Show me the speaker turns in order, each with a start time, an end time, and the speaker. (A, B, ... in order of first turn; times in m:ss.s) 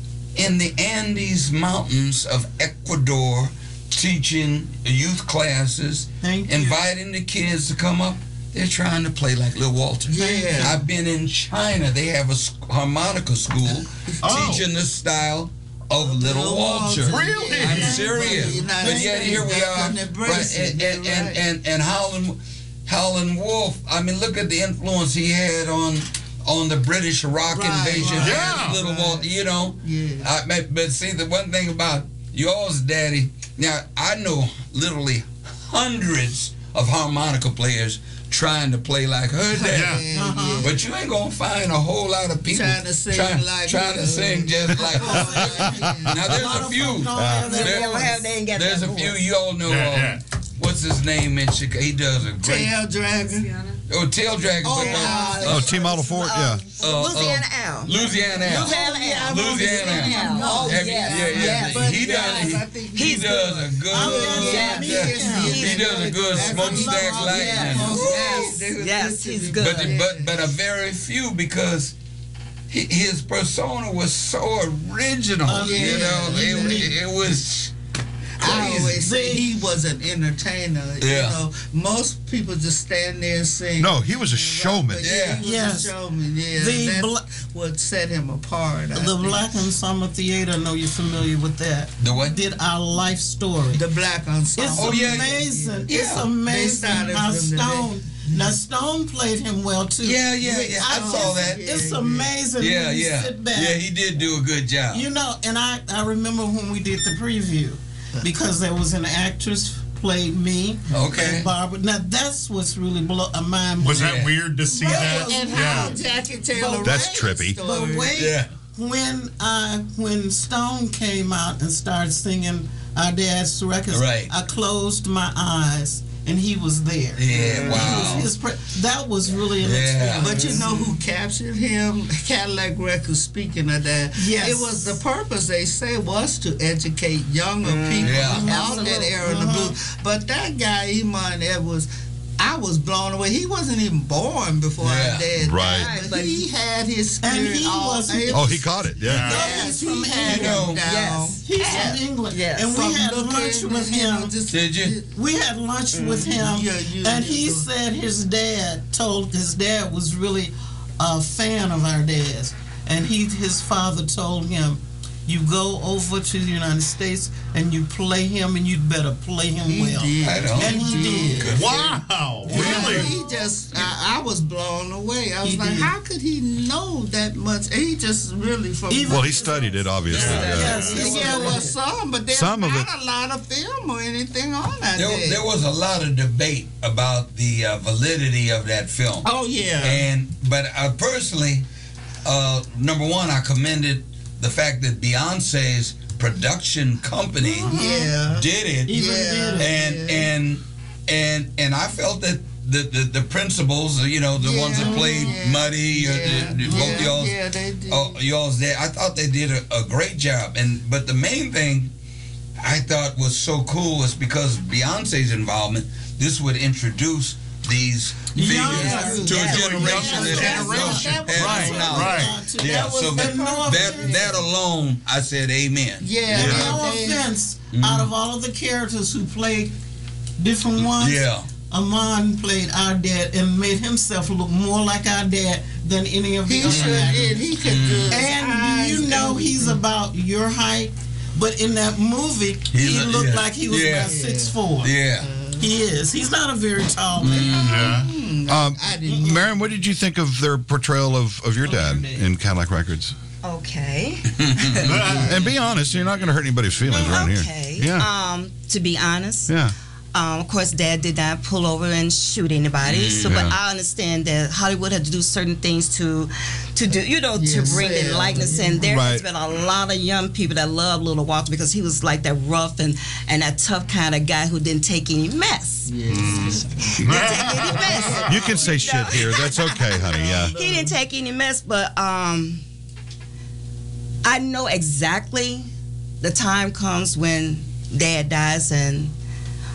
0:00.3-0:40.0 A
0:06.2-0:06.8 B
0:10.1-0:10.8 C
0:10.1-0:10.8 B
0:14.1-0:14.5 C
0:14.2-0:14.6 D
0:16.0-0:21.4 C
0:17.0-0:18.0 D
0:17.6-0:19.4 B
0:27.5-0:29.3 C
0:28.2-0:28.8 D
0:29.8-0:30.3 C
0:39.5-0:40.8 C
0:39.7-0:40.0 D
0:40.1-0:40.7 B
0:40.6-0:52.8 A
0:42.4-0:46.4 C
0:44.8-0:48.2 B
0:47.1-0:47.5 E
0:47.4-0:49.2 F
0:49.6-0:50.2 D
0:52.4-0:53.6 C
0:53.9-0:55.7 A
0:54.6-0:56.0 C
0:54.7-1:03.4 F
0:55.4-0:56.6 E
0:56.8-1:08.7 A
0:58.3-1:10.4 C
1:03.9-1:08.3 B
1:04.2-1:06.4 F
1:07.7-1:10.0 F
1:09.6-1:11.9 A
1:12.7-1:17.7 A
1:15.4-1:17.0 B
1:15.6-1:16.9 C
1:18.4-1:29.4 C
1:18.4-1:19.5 B
1:21.0-1:21.4 A
1:23.8-1:25.1 E
1:25.0-1:25.4 A
1:25.4-1:25.9 B
1:26.6-1:27.2 B
1:28.9-1:33.8 B
1:32.0-1:32.5 A
1:33.7-1:38.5 C
1:34.6-1:43.8 B
1:34.8-1:35.3 A
1:35.9-1:36.3 A
1:40.0-1:41.6 A
1:40.4-1:42.3 C
1:42.6-1:45.0 A
1:44.9-1:54.2 B
1:50.9-1:51.5 A
1:53.8-1:56.0 D
1:54.0-1:54.4 A
1:54.7-1:58.2 C
1:54.8-1:56.0 B
1:56.5-2:10.9 B
1:56.8-1:57.6 E
1:58.1-1:58.5 A
2:03.9-2:04.3 A
2:07.2-2:08.3 A
2:07.4-2:08.1 F
2:09.6-2:10.4 A
2:10.2-2:21.9 C
2:10.3-2:10.7 F
2:14.1-2:15.0 B
2:17.6-2:19.3 F
2:18.0-2:18.6 A
2:18.1-2:19.8 B
2:22.4-2:32.1 C
2:24.8-2:25.3 A
2:25.4-2:25.9 E
2:25.6-2:26.5 F
2:27.2-2:30.8 B
2:28.3-2:29.4 E
2:29.0-2:29.6 D
2:30.2-2:30.8 A
2:30.8-2:32.8 F
2:31.4-2:34.3 B
2:32.7-2:35.1 C
2:34.5-2:35.0 A
2:35.1-2:51.6 B
2:35.9-2:36.4 F
2:36.3-2:37.7 C
2:49.6-2:51.7 C
2:50.2-2:51.9 A
2:51.5-2:53.1 D
2:52.4-2:53.1 B
2:52.5-3:05.4 C
2:55.4-2:55.9 B
2:58.9-3:01.7 B
2:59.1-3:01.0 E
3:00.1-3:01.6 A
3:01.2-3:01.5 F
3:02.3-3:02.9 E
3:04.9-3:09.3 A
3:09.2-3:10.0 C
3:09.8-3:11.6 A
3:12.2-3:17.7 A
3:17.4-3:18.2 B
3:17.6-3:20.3 C
3:18.3-3:27.4 A
3:18.9-3:19.7 B
3:24.4-3:28.2 C
3:24.8-3:25.3 B
3:26.6-3:27.1 B
3:27.9-3:31.9 A
3:32.6-3:46.8 A
3:38.3-3:44.4 B
3:38.4-3:44.4 C
3:39.0-3:40.4 F
3:39.4-3:42.4 D
3:46.0-3:47.3 C
3:46.3-3:49.7 B
3:46.4-3:46.6 D
3:47.7-3:48.1 A
3:50.4-3:57.4 B
3:50.8-3:51.5 A
3:56.4-3:59.8 C
3:56.6-3:58.2 A
3:58.1-4:04.9 B
4:02.7-4:04.1 A
4:04.0-4:04.6 C
4:04.8-4:05.3 A
4:05.2-4:05.8 C
4:05.6-4:07.9 B
4:07.2-4:07.8 A
4:07.5-4:08.1 D
4:07.6-4:09.6 C
4:08.5-4:13.1 E
4:11.6-4:12.3 B
4:13.4-4:15.2 F
4:14.3-4:15.5 A
4:14.8-4:15.5 D
4:15.1-4:18.1 E
4:16.8-4:19.6 F
4:19.5-4:19.7 E
4:20.1-4:35.9 F
4:22.8-4:23.5 A
4:23.2-4:23.6 E
4:27.3-4:28.9 C
4:28.8-4:29.3 E
4:35.9-4:41.0 C
4:36.1-4:38.4 D
4:37.0-4:40.0 F
4:38.2-4:40.6 E
4:40.6-4:42.6 F
4:44.2-4:45.7 F
4:46.2-4:49.1 F